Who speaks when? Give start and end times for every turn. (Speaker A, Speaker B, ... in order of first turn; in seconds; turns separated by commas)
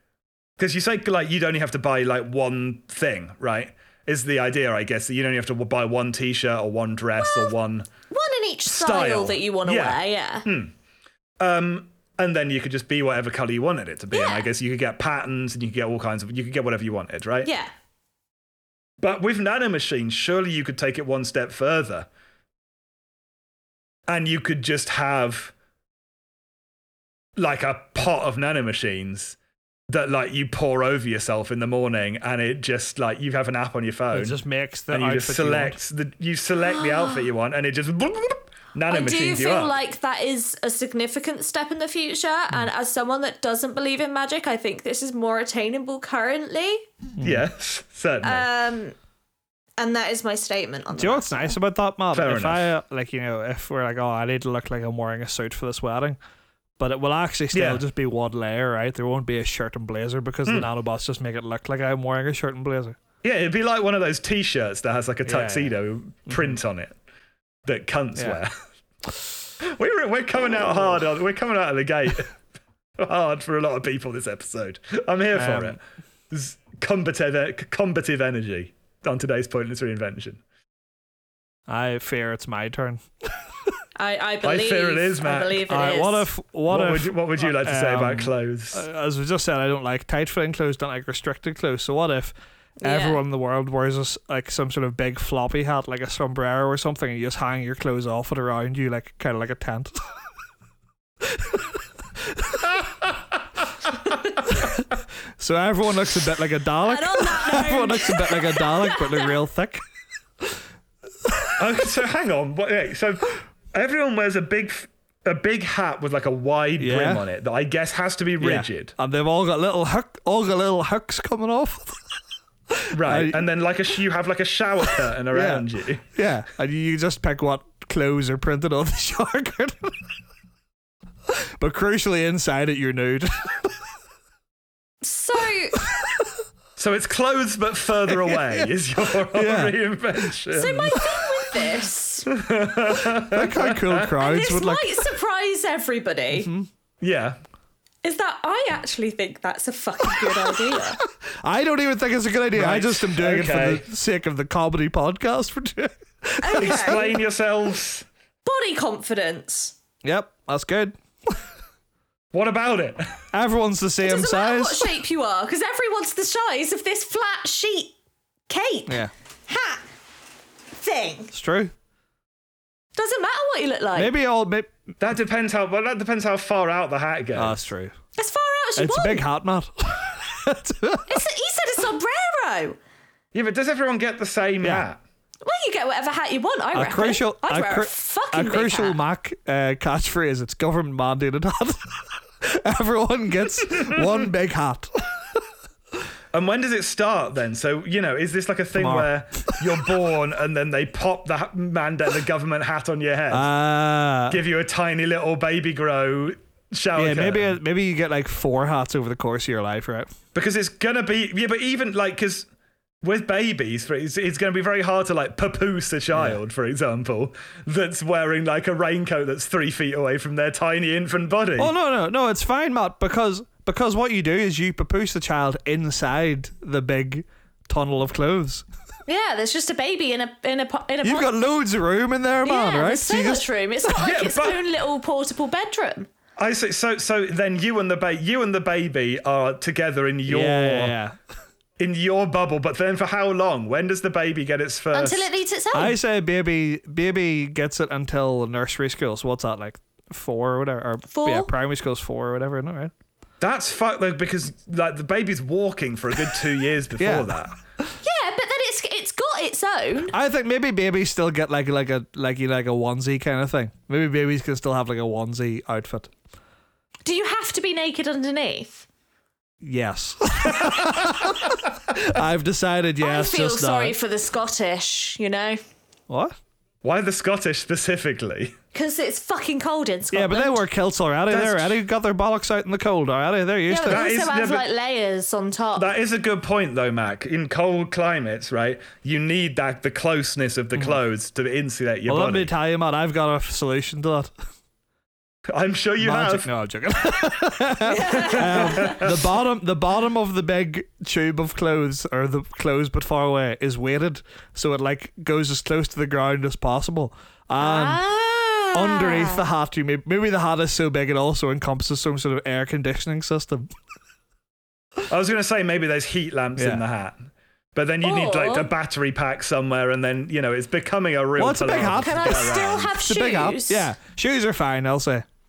Speaker A: 0.6-7.9, Speaker B: 7.2-7.5, Speaker B: 8.1-10.5, Speaker A: 8.7-10.7, Speaker A: 11.4-17.5, Speaker B: 14.1-14.5, Speaker B: 17.4-17.7, Speaker A: 19.0-22.1, Speaker A: 24.1-25.5, Speaker A: 27.4-29.4, Speaker A: 29.9-34.4, Speaker C: 34.1-35.8, Speaker A: 34.9-39.7, Speaker B: 38.9-46.9, Speaker C: 47.2-47.4, Speaker A: 47.2-48.5, Speaker B: 48.2-48.9, Speaker B: 49.8-51.5, Speaker C: 50.9-56.2, Speaker A: 52.1-52.7, Speaker C: 56.8-63.0, Speaker A: 57.5-57.8, Speaker A: 63.2-66.9, Speaker C: 65.2-65.7, Speaker C: 66.3-66.6, Speaker A: 67.7-68.5, Speaker A: 69.6-72.3, Speaker A: 73.0-75.8, Speaker C: 75.3-75.8, Speaker A: 76.3-80.4, Speaker C: 81.7-83.0, Speaker B: 84.0-86.3, Speaker A: 84.4-85.7, Speaker C: 85.7-100.1, Speaker A: 86.7-88.8, Speaker B: 92.8-93.2, Speaker C: 101.2-102.7, Speaker C: 104.5-104.8, Speaker C: 105.4-109.8, Speaker B: 106.8-109.4, Speaker C: 111.2-111.5, Speaker A: 111.6-118.9, Speaker C: 116.8-117.2, Speaker C: 118.4-123.4, Speaker A: 122.9-126.0, Speaker C: 125.3-130.0, Speaker C: 131.3-133.7, Speaker B: 135.0-135.8, Speaker C: 135.8-136.2, Speaker A: 136.8-141.0, Speaker C: 138.1-139.8, Speaker B: 140.5-142.3, Speaker A: 142.3-144.1, Speaker C: 142.9-145.0, Speaker B: 144.2-146.5, Speaker C: 146.3-146.7, Speaker A: 147.0-147.4, Speaker B: 148.0-151.0, Speaker C: 151.4-157.1, Speaker A: 152.5-153.8, Speaker B: 156.4-157.1, Speaker A: 156.6-158.0, Speaker B: 158.4-159.8, Speaker C: 160.0-161.4, Speaker A: 162.3-163.1, Speaker C: 163.3-165.0, Speaker B: 164.0-167.9, Speaker B: 168.5-169.8, Speaker B: 170.7-171.3, Speaker C: 171.3-171.7, Speaker B: 172.9-174.1, Speaker C: 173.9-174.7, Speaker A: 175.0-177.6, Speaker C: 177.3-177.9, Speaker B: 178.2-179.2, Speaker C: 178.8-181.2, Speaker B: 181.1-182.8, Speaker A: 183.3-185.0, Speaker C: 184.6-184.9, Speaker B: 185.4-189.0, Speaker C: 186.7-195.4, Speaker A: 196.3-203.5, Speaker C: 198.7-199.6, Speaker C: 203.3-204.4, Speaker A: 204.3-207.5, Speaker C: 206.9-210.1, Speaker A: 210.3-212.4, Speaker A: 213.0-221.7, Speaker C: 216.1-216.4, Speaker C: 221.6-228.6, Speaker B: 229.1-231.3, Speaker C: 231.0-233.4, Speaker B: 232.4-236.1, Speaker A: 233.9-234.6, Speaker A: 236.4-240.9, Speaker C: 240.3-241.2, Speaker A: 241.8-245.3, Speaker B: 244.9-245.9, Speaker C: 245.7-252.9, Speaker B: 251.1-251.5, Speaker A: 253.4-257.6, Speaker C: 257.0-257.9, Speaker B: 258.0-260.1, Speaker C: 260.1-266.1, Speaker B: 267.1-268.9, Speaker C: 269.6-273.9, Speaker B: 273.0-275.6, Speaker C: 276.1-276.4, Speaker A: 276.8-278.6, Speaker B: 278.7-280.6, Speaker C: 280.1-284.1, Speaker A: 281.3-281.8, Speaker B: 283.7-285.9, Speaker A: 283.9-284.6, Speaker A: 285.8-292.5, Speaker C: 292.1-294.3, Speaker A: 295.5-296.5, Speaker C: 296.0-308.0, Speaker B: 297.9-299.0, Speaker A: 298.2-299.3, Speaker B: 307.6-309.4, Speaker C: 308.7-313.7, Speaker A: 315.1-322.9, Speaker C: 316.6-316.8, Speaker B: 318.0-318.7, Speaker C: 321.4-325.2, Speaker B: 322.0-323.9